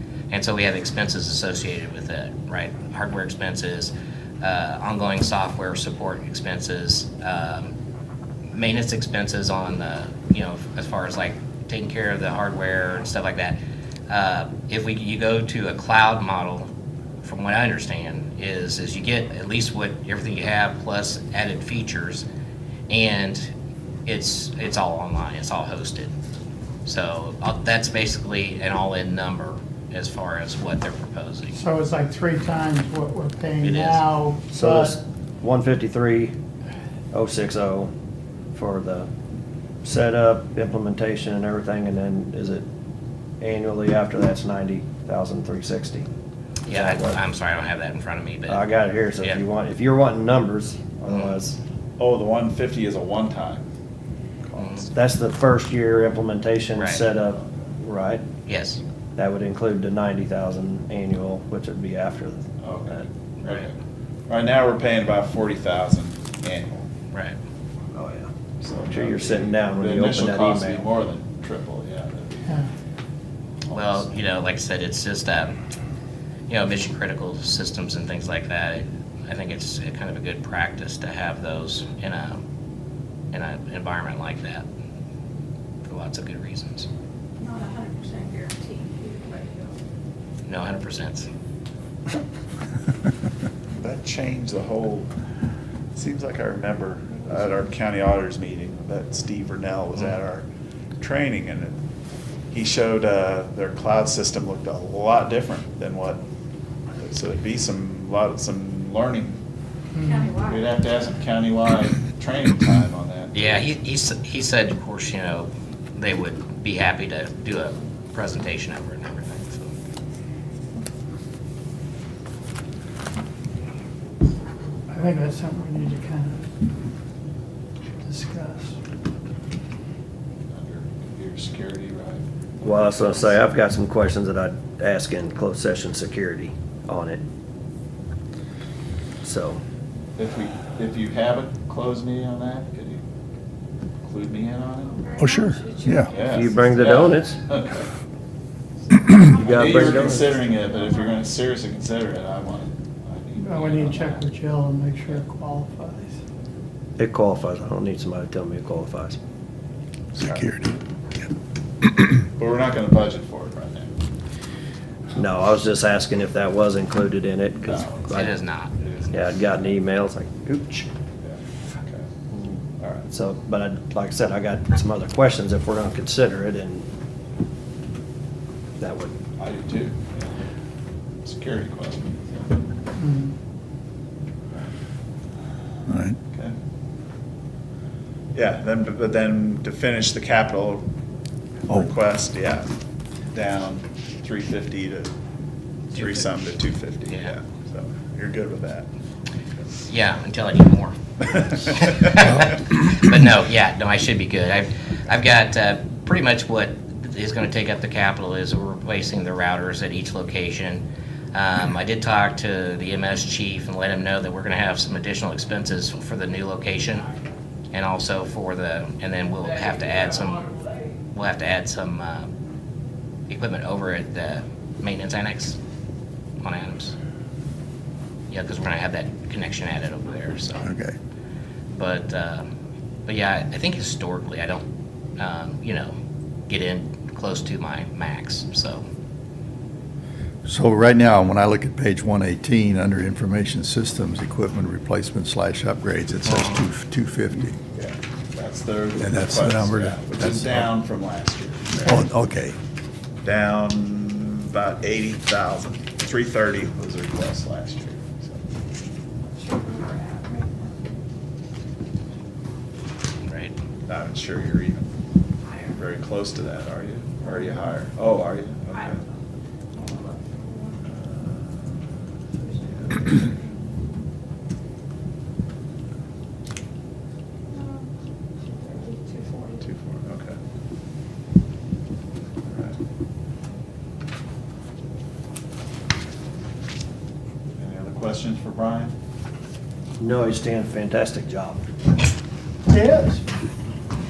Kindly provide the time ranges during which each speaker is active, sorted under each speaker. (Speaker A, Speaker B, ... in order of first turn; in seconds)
Speaker A: 0.3-7.7, 8.5-13.6, 14.1-16.7, 17.2-22.2, 22.9-23.5, 24.1-26.1, 26.9-31.6, 33.6-34.1, 46.7-48.6, 51.1-51.4, 54.6-54.9, 56.8-57.0, 58.5-58.8, 73.7-75.5, 76.5-82.4, 83.3-84.7, 85.8-86.9, 90.5-91.3, 113.3-119.7, 168.1-168.7, 195.9-196.3, 199.9-217.1, 217.7-220.5, 221.1-222.3, 223.3-225.6, 226.4-226.9, 228.3-230.7, 231.7-232.5, 233.1-234.6, 235.2-235.9, 236.5-238.8, 263.2-263.6
Speaker B: 31.5-35.0, 110.0-110.3, 124.9-126.4, 128.1-128.8, 153.4-156.2, 183.0-183.3
Speaker C: 34.5-36.4, 37.1-37.9, 38.5-39.1, 39.8-42.6, 43.4-46.1, 46.7-47.2, 48.5-51.6, 54.9-58.2, 59.2-63.0, 67.9-68.3, 68.9-70.9, 132.6-137.2, 139.2-139.6, 146.2-147.4, 149.2-150.4, 157.0-159.2, 165.2-168.3, 169.1-170.9, 173.1-176.9, 178.8-179.2, 290.0-291.6, 292.7-293.2
Speaker D: 52.0-53.7, 54.5-54.9, 62.6-63.8, 64.3-66.9, 68.6-72.7, 73.7-74.0, 93.8-95.1, 96.0-100.5, 101.0-101.8, 102.5-106.2, 107.0-109.4, 110.4-113.3, 130.5-133.4, 140.2-143.0, 144.0-145.0, 146.1-147.9, 149.3-154.2, 162.4-163.9, 167.6-169.5, 171.2-172.1, 172.8-173.1, 179.4-180.5, 181.2-182.6, 188.3-190.9, 191.7-192.7, 193.3-195.1, 195.9-198.9, 247.7-252.0, 253.2-258.4, 263.9-264.8, 265.7-269.0, 270.9-272.0, 272.7-273.2, 279.6-280.4, 282.5-282.8, 287.6-288.9
Speaker E: 87.4-89.8, 110.0-111.0, 144.8-146.5, 148.9-151.3, 259.4-260.8, 265.5-265.8, 267.2-267.6, 268.7-269.0, 269.7-270.8, 272.4-273.6, 277.5-277.9, 278.6-279.6
Speaker F: 145.2-146.1, 160.2-161.3, 185.9-186.2, 230.6-231.0, 240.5-247.6, 249.0-250.7, 251.8-252.6